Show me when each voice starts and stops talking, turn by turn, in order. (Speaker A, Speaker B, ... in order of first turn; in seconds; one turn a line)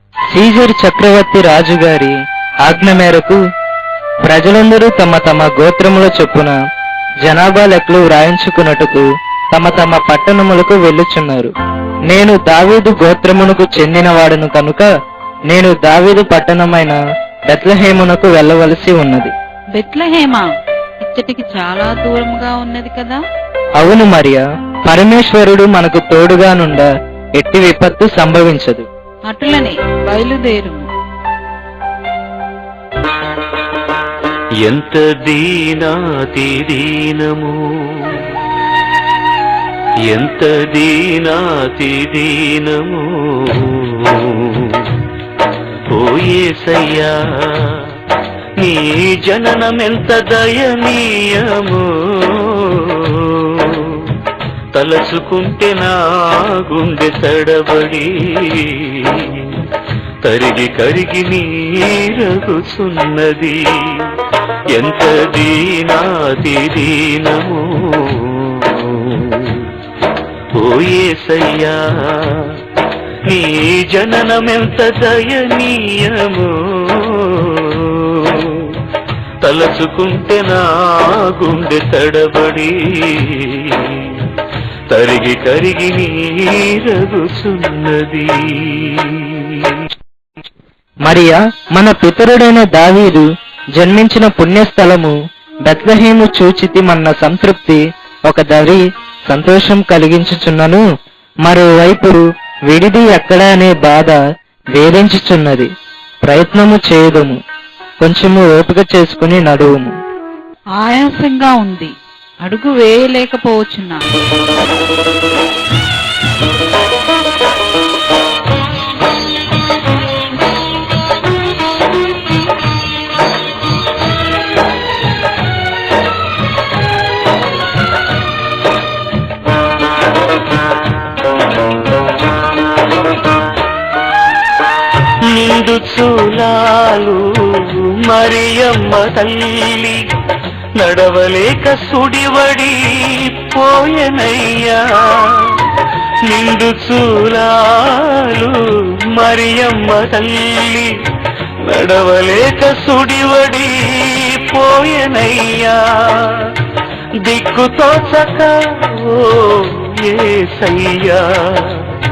Speaker A: 0.3-3.4
Speaker A: 4.2-6.6
Speaker A: 7.2-11.5
Speaker A: 12.1-14.9
Speaker A: 15.5-19.3
Speaker B: 19.8-20.5
Speaker B: 21.0-23.2
Speaker A: 23.8-28.9
Speaker B: 29.3-30.9
Speaker C: 34.6-38.2
Speaker C: 40.1-45.0
Speaker C: 45.9-47.9
Speaker C: 48.6-54.1
Speaker C: 54.7-59.5
Speaker C: 60.2-64.1
Speaker C: 64.7-69.7
Speaker C: 70.6-72.5
Speaker C: 73.3-78.8
Speaker C: 79.4-84.2
Speaker C: 84.9-89.8
Speaker A: 91.1-95.2
Speaker A: 95.7-100.8
Speaker A: 101.5-104.2
Speaker A: 104.8-105.7
Speaker A: 106.2-107.4
Speaker A: 108.0-110.0
Speaker B: 110.8-114.0
Speaker C: 135.3-140.1
Speaker C: 140.8-145.6
Speaker C: 146.3-148.6
Speaker C: 149.1-150.9
Speaker C: 151.6-156.5
Speaker C: 157.2-161.9